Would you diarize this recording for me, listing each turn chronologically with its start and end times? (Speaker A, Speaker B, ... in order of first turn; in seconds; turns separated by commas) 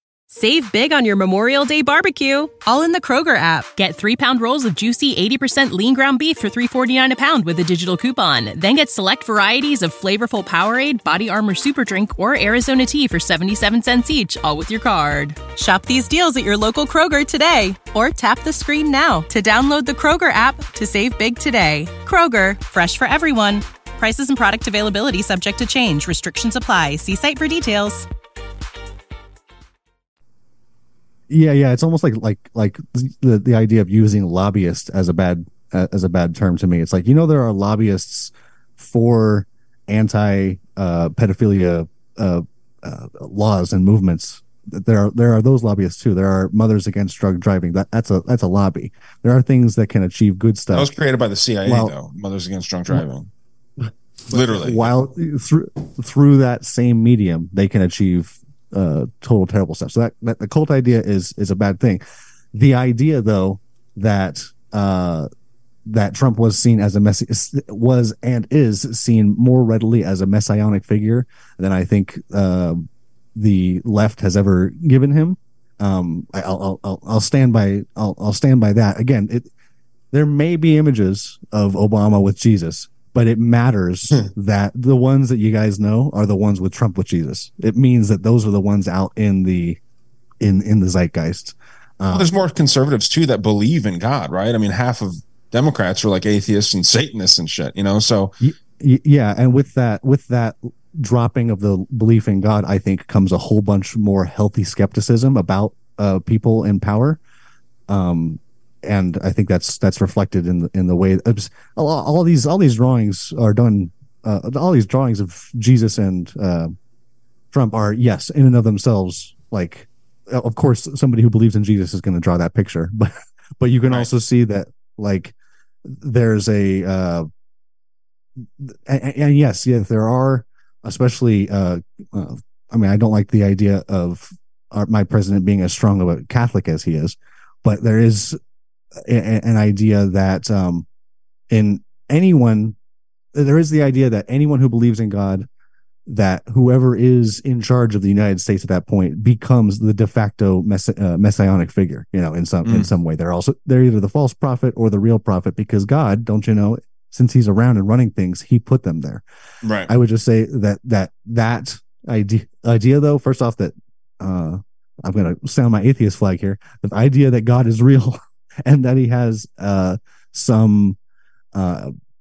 Speaker A: 0.3-28.1, Speaker B: 31.3-50.9, Speaker C: 50.7-53.3, Speaker B: 51.6-51.9, Speaker B: 54.3-65.3, Speaker C: 54.3-55.0, Speaker B: 65.9-72.8, Speaker B: 73.3-79.5, Speaker B: 80.1-89.8, Speaker B: 90.4-92.3, Speaker C: 92.1-98.3, Speaker B: 98.4-107.2, Speaker B: 107.9-116.8, Speaker B: 117.5-125.3, Speaker B: 125.8-127.3, Speaker B: 128.6-138.4, Speaker B: 139.0-140.9, Speaker B: 141.5-142.8, Speaker B: 143.3-145.5, Speaker B: 146.1-159.2, Speaker C: 152.7-152.9, Speaker C: 159.6-159.9, Speaker B: 159.9-171.0, Speaker B: 171.5-171.9